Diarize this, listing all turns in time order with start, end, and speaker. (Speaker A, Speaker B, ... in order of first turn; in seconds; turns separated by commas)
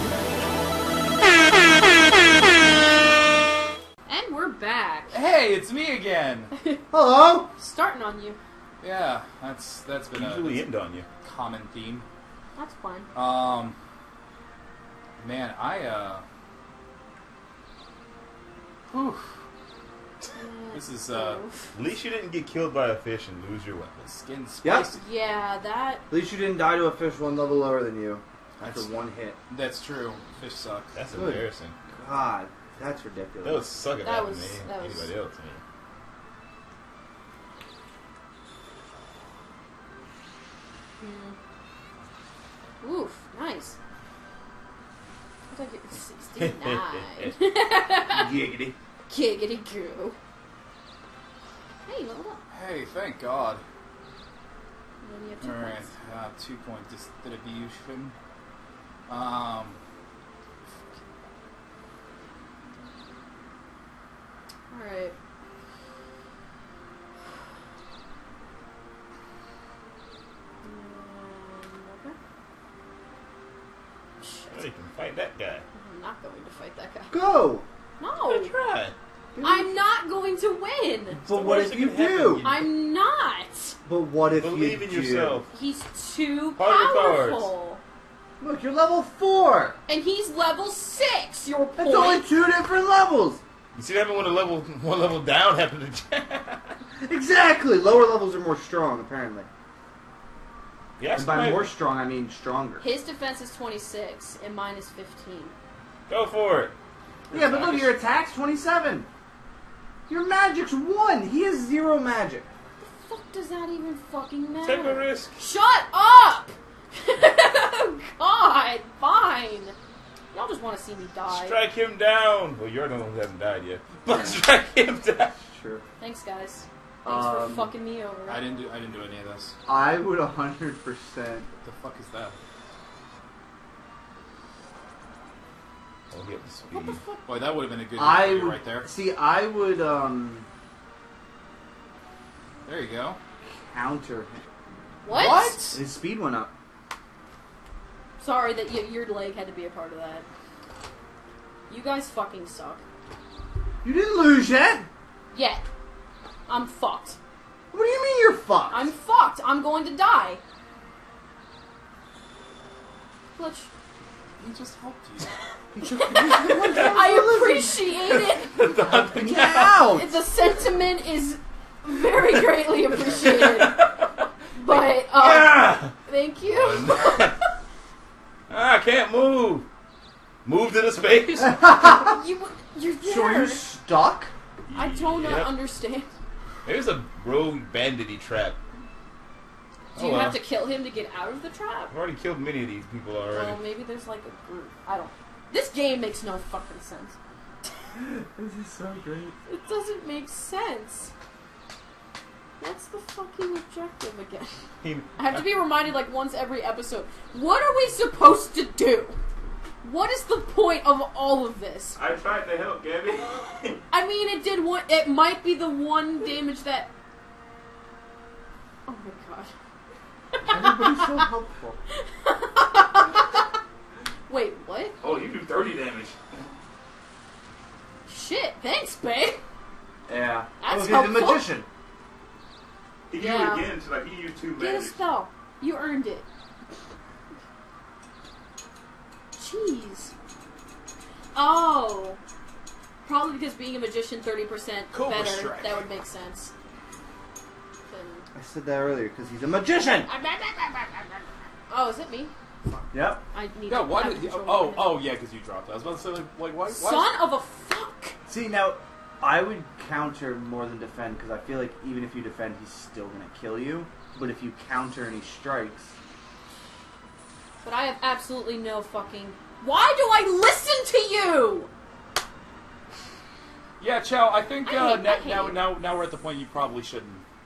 Speaker A: 4.1-5.2, Speaker B: 5.1-6.5, Speaker A: 6.5-6.8, Speaker C: 6.9-7.5, Speaker A: 7.5-8.4, Speaker B: 8.8-10.6, Speaker D: 10.1-11.1, Speaker B: 11.2-12.1, Speaker A: 12.6-13.1, Speaker B: 13.2-13.8, Speaker B: 15.2-16.2, Speaker B: 18.9-19.4, Speaker A: 20.3-21.7, Speaker B: 20.7-21.4, Speaker D: 21.7-24.1, Speaker B: 24.1-25.0, Speaker C: 24.6-24.9, Speaker A: 24.9-26.0, Speaker C: 26.1-29.4, Speaker B: 28.6-30.9, Speaker D: 30.9-31.8, Speaker C: 31.1-33.6, Speaker D: 33.4-35.6, Speaker A: 34.0-35.1, Speaker A: 41.0-41.4, Speaker A: 42.8-43.8, Speaker A: 45.5-48.3, Speaker D: 46.4-47.3, Speaker C: 48.1-48.8, Speaker A: 49.1-50.2, Speaker A: 51.9-52.4, Speaker B: 52.5-53.6, Speaker A: 55.0-55.9, Speaker B: 55.4-58.1, Speaker B: 59.1-59.8, Speaker A: 64.7-65.2, Speaker A: 70.6-72.2, Speaker A: 74.2-74.6, Speaker D: 74.5-75.7, Speaker A: 75.7-77.1, Speaker C: 77.1-77.7, Speaker A: 78.0-78.5, Speaker D: 78.3-78.9, Speaker C: 79.3-79.7, Speaker A: 79.4-81.2, Speaker C: 81.2-82.5, Speaker D: 81.3-82.5, Speaker A: 82.4-83.8, Speaker C: 83.8-85.4, Speaker D: 84.3-85.5, Speaker A: 85.5-87.8, Speaker D: 86.6-87.5, Speaker C: 88.4-89.8, Speaker A: 89.9-92.2, Speaker C: 91.8-93.4, Speaker D: 93.8-96.8, Speaker C: 97.0-99.5, Speaker D: 101.0-101.7, Speaker C: 101.1-102.8, Speaker A: 102.8-105.5, Speaker D: 106.1-106.7, Speaker B: 107.3-108.0, Speaker C: 107.3-109.1, Speaker C: 110.1-112.5, Speaker A: 112.8-119.8, Speaker D: 114.6-115.4, Speaker A: 120.3-121.6, Speaker D: 121.3-125.4, Speaker C: 124.1-124.4, Speaker C: 125.5-125.8, Speaker A: 126.0-128.4, Speaker C: 127.1-127.7, Speaker B: 128.3-129.6, Speaker C: 129.7-131.5, Speaker B: 131.6-132.4, Speaker D: 136.1-137.0, Speaker B: 136.7-138.9, Speaker C: 138.0-140.5, Speaker B: 142.7-143.2, Speaker C: 143.5-144.4, Speaker A: 145.0-145.6, Speaker B: 145.1-145.8, Speaker C: 145.7-146.5, Speaker A: 148.2-150.2, Speaker A: 151.7-152.8, Speaker C: 153.8-154.9, Speaker A: 155.3-155.6, Speaker A: 156.5-157.2, Speaker C: 157.7-158.9, Speaker A: 158.7-160.4, Speaker A: 163.3-163.7, Speaker B: 164.4-165.4, Speaker C: 165.8-167.8, Speaker A: 166.0-169.0, Speaker D: 166.7-167.0, Speaker D: 168.1-169.8, Speaker C: 168.9-170.1, Speaker A: 169.8-173.8, Speaker D: 173.2-174.0, Speaker A: 174.5-177.5, Speaker D: 174.7-175.9, Speaker D: 176.5-177.3, Speaker D: 178.5-179.7, Speaker D: 180.4-181.7, Speaker C: 181.5-182.1, Speaker A: 181.8-183.7, Speaker C: 183.1-184.3, Speaker D: 184.7-185.5, Speaker A: 184.7-186.1, Speaker D: 186.7-188.6, Speaker A: 189.9-191.9, Speaker D: 190.0-190.4, Speaker D: 191.9-193.6, Speaker A: 193.3-197.2, Speaker C: 198.0-199.3, Speaker A: 199.5-201.1, Speaker A: 202.6-204.5, Speaker D: 204.8-205.5, Speaker A: 205.2-209.2, Speaker A: 209.8-212.0, Speaker D: 212.0-213.8, Speaker A: 213.9-216.9, Speaker A: 218.9-219.5, Speaker A: 220.4-221.2, Speaker C: 220.4-221.8, Speaker A: 221.9-223.4, Speaker A: 224.3-225.0, Speaker D: 225.0-226.4, Speaker A: 228.1-229.4, Speaker C: 230.1-231.7, Speaker A: 230.6-231.5, Speaker D: 233.1-235.0, Speaker A: 233.1-233.7, Speaker A: 234.6-236.3, Speaker A: 239.4-240.1, Speaker A: 241.3-242.2, Speaker A: 243.0-246.5, Speaker B: 244.9-245.8, Speaker A: 247.9-248.3, Speaker C: 248.3-250.1, Speaker A: 250.1-251.1, Speaker A: 251.7-252.3, Speaker C: 252.9-253.2, Speaker A: 253.3-255.1, Speaker B: 253.7-257.1, Speaker A: 256.7-258.2, Speaker C: 258.3-266.0, Speaker A: 267.6-271.7, Speaker B: 273.8-277.2, Speaker A: 274.6-275.6